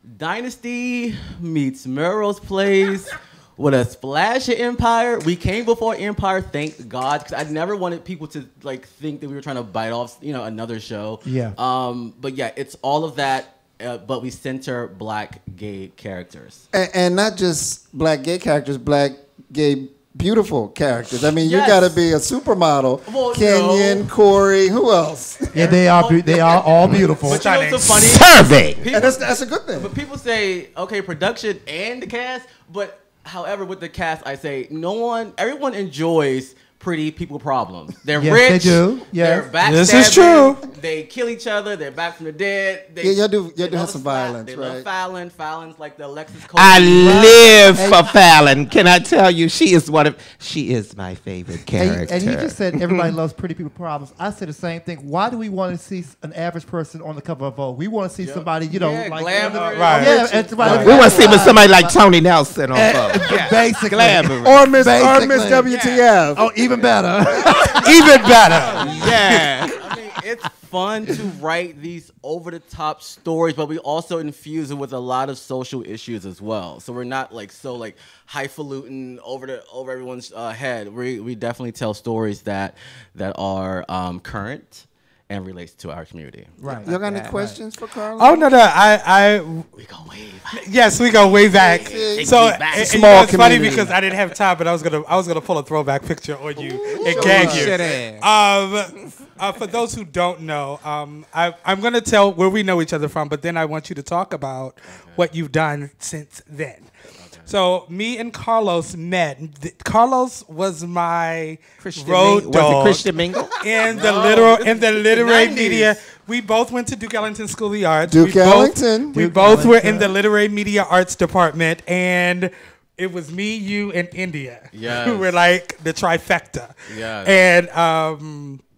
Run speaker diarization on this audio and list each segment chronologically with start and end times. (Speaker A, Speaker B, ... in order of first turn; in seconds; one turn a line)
Speaker A: 0.2-16.6
Speaker B: 11.2-11.6
Speaker C: 16.7-25.8
Speaker A: 21.4-22.0
Speaker A: 23.1-24.1
Speaker B: 25.5-27.4
Speaker A: 25.6-47.8
Speaker D: 27.3-27.9
Speaker E: 27.9-28.8
Speaker C: 28.9-29.9
Speaker B: 38.1-39.5
Speaker D: 39.6-40.6
Speaker C: 43.0-44.9
Speaker E: 46.5-53.1
Speaker B: 47.7-48.1
Speaker B: 51.7-62.0
Speaker A: 58.2-61.6
Speaker D: 59.7-60.2
Speaker C: 60.1-61.3
Speaker E: 60.6-64.7
Speaker B: 62.7-65.7
Speaker C: 64.4-66.6
Speaker E: 65.7-66.1
Speaker B: 66.3-68.1
Speaker C: 67.4-67.7
Speaker D: 67.8-68.9
Speaker A: 68.2-86.5
Speaker E: 68.9-69.8
Speaker B: 86.6-87.6
Speaker E: 86.6-87.3
Speaker C: 86.9-88.5
Speaker D: 88.2-89.7
Speaker A: 89.8-92.6
Speaker D: 90.5-106.9
Speaker C: 91.5-93.9
Speaker E: 92.2-93.7
Speaker E: 96.8-98.3
Speaker C: 96.9-97.9
Speaker A: 107.2-107.5
Speaker D: 107.5-128.6
Speaker E: 111.8-113.6
Speaker A: 113.8-116.0
Speaker C: 118.1-119.2
Speaker B: 119.1-120.1
Speaker A: 124.7-125.3
Speaker A: 126.9-127.4